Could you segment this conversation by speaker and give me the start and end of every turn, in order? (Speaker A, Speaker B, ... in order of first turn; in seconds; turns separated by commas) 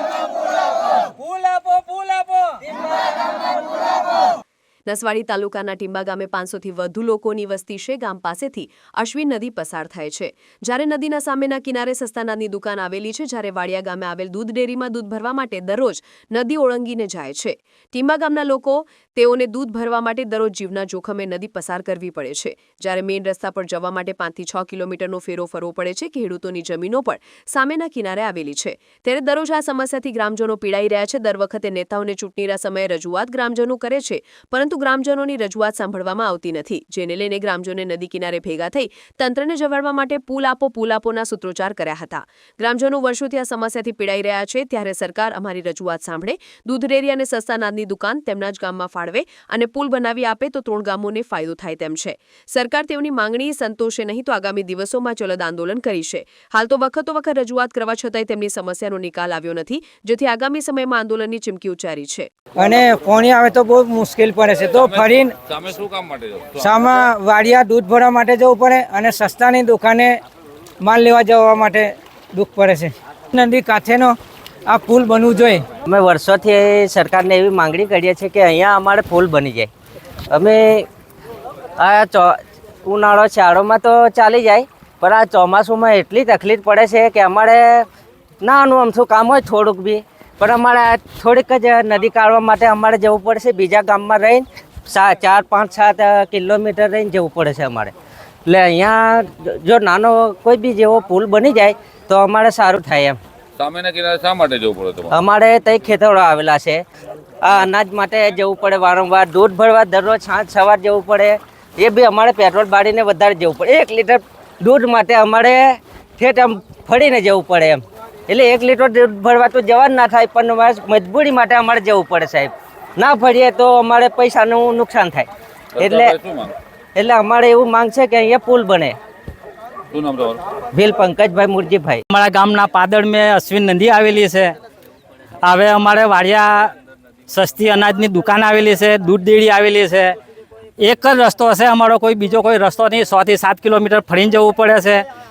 Speaker A: 1.2-2.5, Speaker B: 4.9-62.3, Speaker A: 62.6-65.3, Speaker C: 64.7-66.7, Speaker A: 66.6-70.2, Speaker A: 70.8-74.2, Speaker A: 74.7-75.7, Speaker D: 75.8-79.7, Speaker D: 80.3-80.9, Speaker D: 81.8-87.9, Speaker D: 88.4-97.9, Speaker D: 98.5-103.2, Speaker C: 103.6-105.2, Speaker D: 105.1-106.8, Speaker D: 107.4-126.2, Speaker C: 125.8-126.5, Speaker D: 127.0-128.9, Speaker C: 129.9-130.4, Speaker D: 130.7-132.0, Speaker E: 132.1-134.5, Speaker E: 135.4-136.7, Speaker E: 137.3-140.2, Speaker E: 140.8-145.0